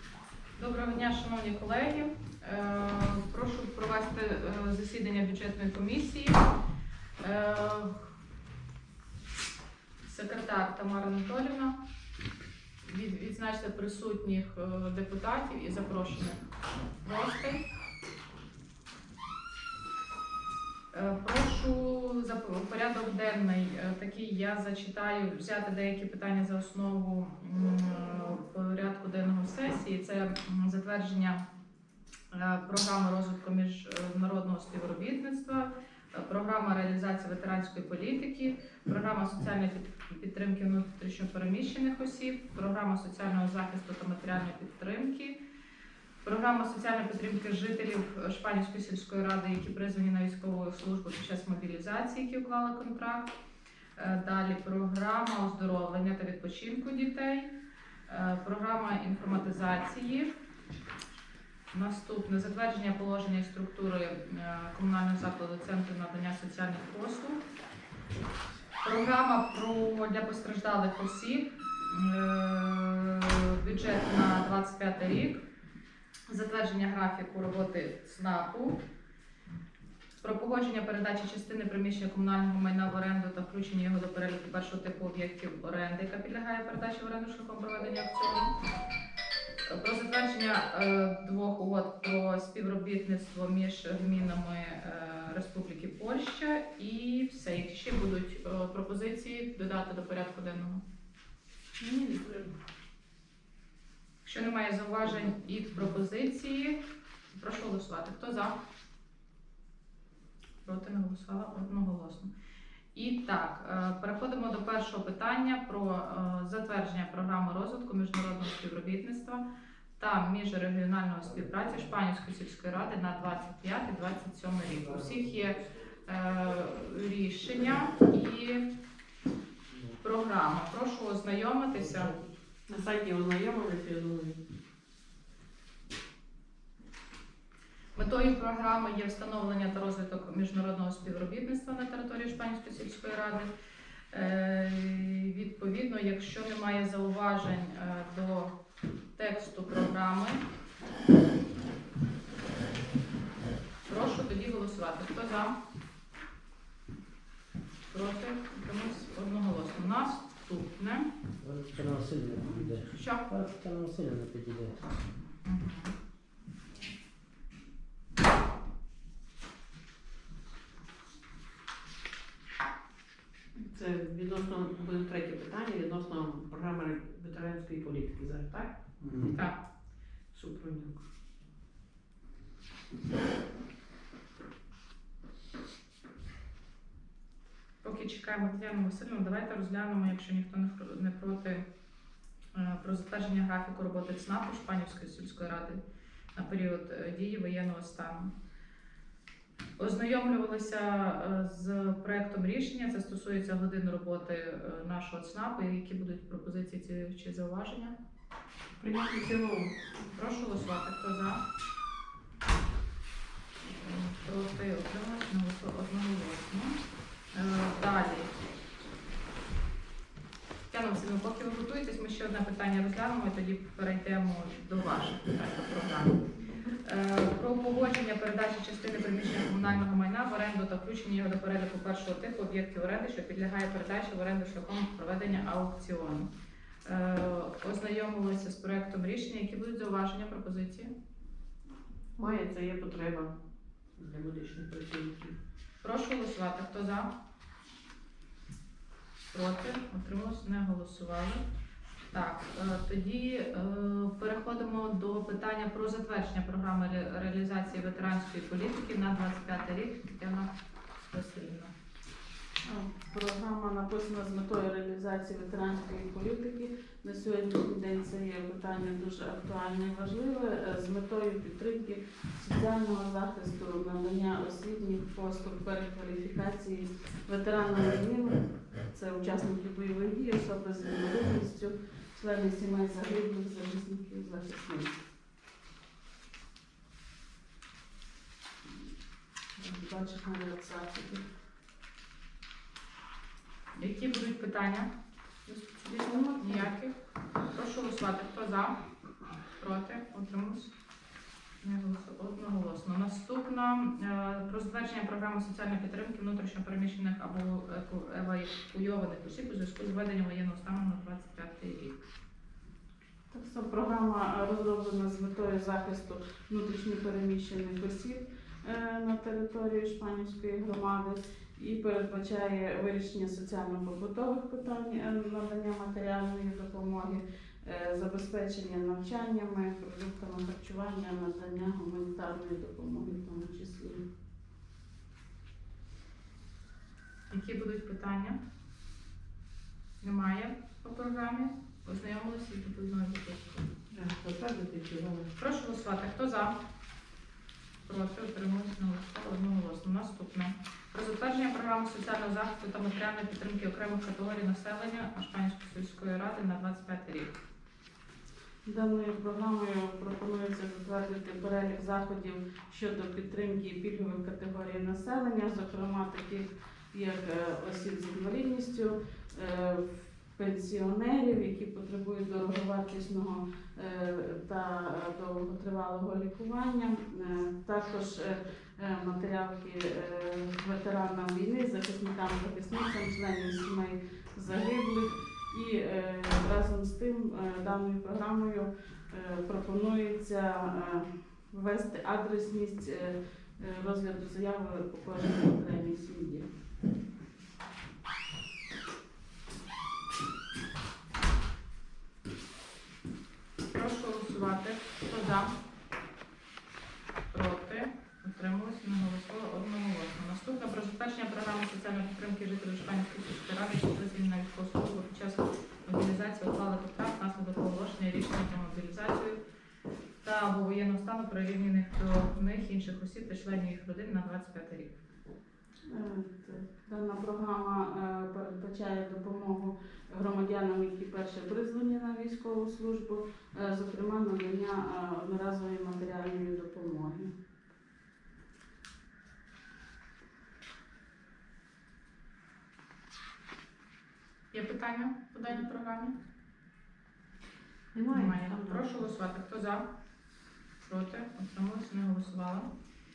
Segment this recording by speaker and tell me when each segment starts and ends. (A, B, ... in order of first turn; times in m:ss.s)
0:00.6-0:06.5 A
0:07.2-0:08.0 A
0:10.0-0:11.8 A
0:12.8-0:16.4 A
0:17.0-0:17.6 A
0:20.9-0:31.4 A
0:32.3-0:45.4 A
0:46.2-0:53.3 A
0:54.0-0:57.5 A
0:58.1-1:00.3 A
1:01.7-1:07.4 A
1:08.8-1:15.4 A
1:16.3-1:18.8 A
1:20.2-1:28.6 A
1:29.7-1:40.8 A
1:41.8-1:42.5 B
1:44.2-1:46.8 A
1:47.3-1:48.6 A
1:50.6-1:52.3 A
1:52.9-1:59.4 A
2:00.0-2:08.7 A
2:10.0-2:12.2 A
2:12.7-2:14.4 B
2:17.9-2:23.5 A
2:24.1-2:28.5 A
2:29.2-2:30.4 A
2:33.8-2:35.6 A
2:37.9-2:41.1 A
2:41.4-2:44.8 C
2:42.8-2:43.3 A
2:45.4-2:45.9 A
2:53.6-2:58.8 B
2:59.3-2:59.6 A
3:00.3-3:01.0 B
3:07.8-3:11.6 A
3:12.5-3:15.8 A
3:16.3-3:18.3 A
3:19.8-3:27.9 A
3:28.8-3:29.7 B
3:30.1-3:31.4 A
3:33.6-3:36.8 A
3:37.3-3:38.3 A
3:40.7-3:46.2 A
3:46.8-3:56.3 A
3:56.8-4:00.9 A
4:02.2-4:03.4 B
4:04.0-4:05.4 B
4:05.8-4:07.1 A
4:09.3-4:11.4 A
4:12.1-4:20.5 A
4:21.0-4:21.7 A
4:22.6-4:45.0 D
4:49.6-4:51.2 D
4:53.8-4:54.9 A
4:55.5-4:56.9 A
4:55.9-4:56.7 D
4:57.5-4:58.8 A
4:59.6-5:00.7 A
5:01.6-5:12.0 A
5:13.3-5:34.0 D
5:37.3-5:38.4 A
5:40.0-5:43.7 A
5:43.9-5:45.3 B
5:45.4-5:46.5 A
5:47.8-5:57.3 A
5:58.6-6:36.5 D
6:43.7-6:45.5 A
6:47.3-6:59.4 A
7:00.2-7:04.9 A
7:05.9-7:17.3 D
7:24.5-7:26.2 A
7:27.9-7:29.0 B
7:28.1-7:29.8 A
7:30.8-7:32.7 A